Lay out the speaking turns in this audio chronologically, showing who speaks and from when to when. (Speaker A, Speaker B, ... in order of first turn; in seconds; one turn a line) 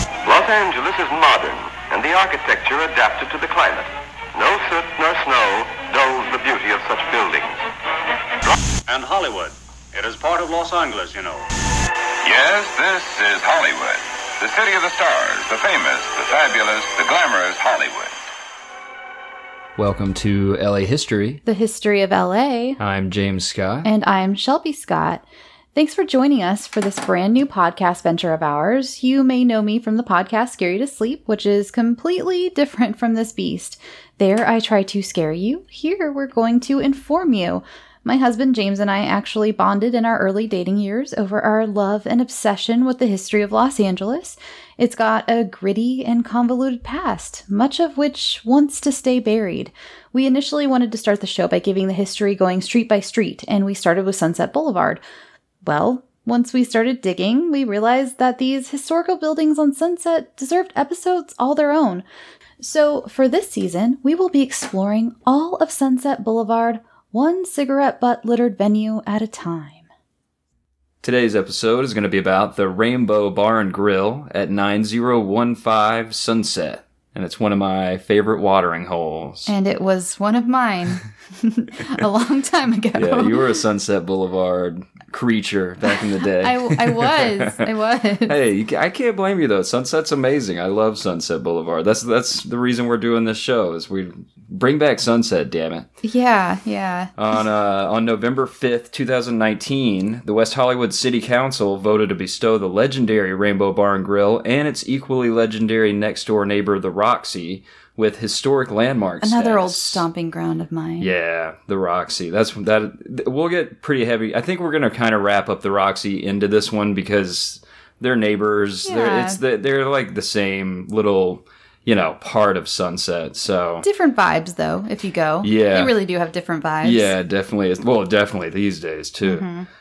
Speaker A: 0.2-7.5
Speaker B: 8.9-11.4
Speaker C: 12.2-18.1
Speaker D: 19.8-21.4
Speaker E: 21.5-22.8
Speaker D: 22.8-23.9
Speaker E: 23.8-55.0
Speaker E: 55.6-62.0
Speaker E: 62.6-69.9
Speaker D: 71.0-79.5
Speaker E: 79.5-83.4
Speaker D: 83.0-87.7
Speaker E: 85.9-88.3
Speaker D: 88.3-95.9
Speaker E: 96.0-97.1
Speaker D: 97.2-110.0
Speaker E: 109.2-111.1
Speaker D: 111.0-123.8
Speaker E: 118.8-119.4
Speaker E: 123.8-127.1
Speaker D: 125.4-125.9
Speaker D: 126.8-129.5
Speaker E: 129.2-129.7